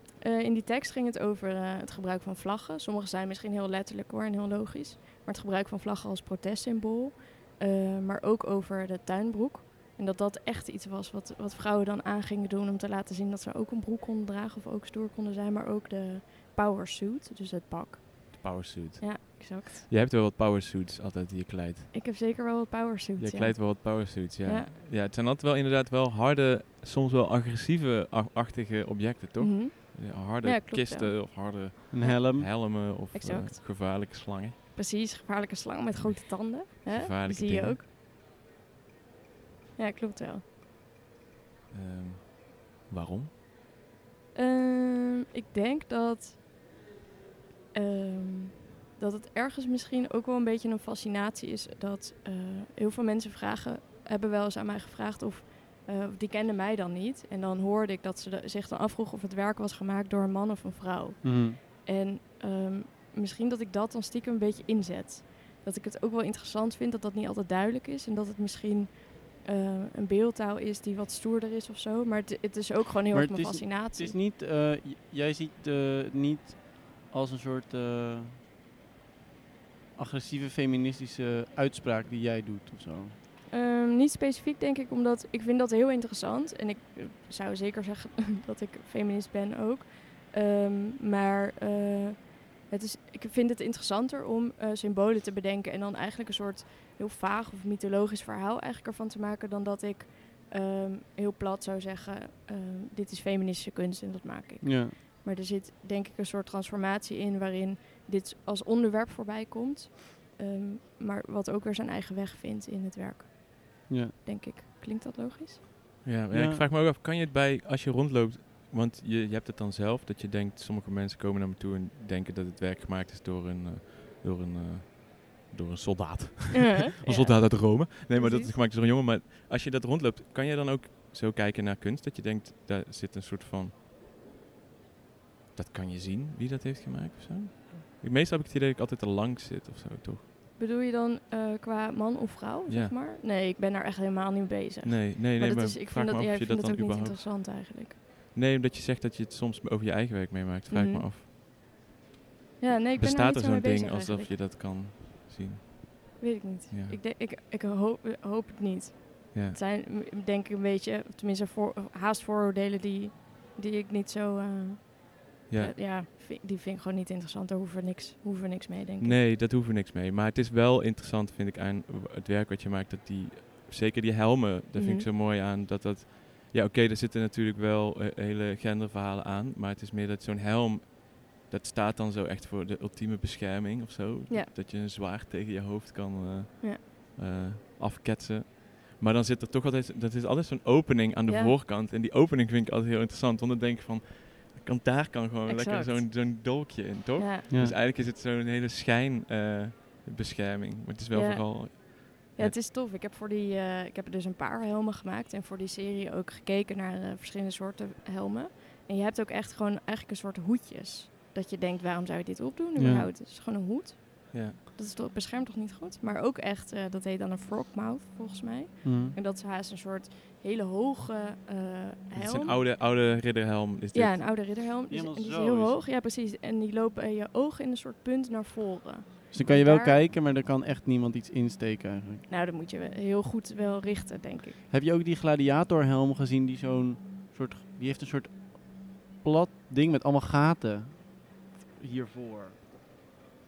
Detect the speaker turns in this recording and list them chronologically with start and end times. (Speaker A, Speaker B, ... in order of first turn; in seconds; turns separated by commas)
Speaker A: 0.2-18.4, Speaker B: 18.3-21.9, Speaker A: 19.0-19.9, Speaker A: 21.9-24.7, Speaker B: 23.2-34.6, Speaker A: 29.4-31.1, Speaker C: 31.9-32.5, Speaker A: 33.1-33.6, Speaker A: 34.7-37.8, Speaker B: 36.9-37.8, Speaker A: 39.8-40.4, Speaker B: 41.7-43.3, Speaker A: 44.3-46.4, Speaker A: 47.7-74.1, Speaker C: 61.2-61.6, Speaker C: 73.1-78.4, Speaker C: 80.0-83.1, Speaker A: 83.5-115.6, Speaker C: 104.6-105.0, Speaker C: 113.9-114.1, Speaker B: 116.0-133.7, Speaker C: 116.3-116.6, Speaker A: 126.5-128.5, Speaker B: 135.5-140.2, Speaker A: 140.6-148.0, Speaker B: 142.7-142.9, Speaker B: 144.8-147.2, Speaker B: 148.3-151.2, Speaker A: 150.7-151.1, Speaker A: 152.6-154.3, Speaker B: 152.9-155.6, Speaker A: 156.2-169.2, Speaker B: 156.7-157.0, Speaker B: 159.3-159.6, Speaker B: 165.5-165.8, Speaker B: 169.0-202.6, Speaker A: 174.8-175.1, Speaker A: 191.3-191.5, Speaker A: 195.5-196.2, Speaker A: 197.2-197.4, Speaker C: 197.5-197.7, Speaker A: 201.1-222.6, Speaker C: 212.8-213.1, Speaker B: 214.3-214.6, Speaker C: 218.8-219.2, Speaker B: 222.1-224.2, Speaker A: 223.9-230.0, Speaker C: 224.9-225.8, Speaker C: 229.3-232.2, Speaker A: 232.3-234.6, Speaker C: 234.7-242.5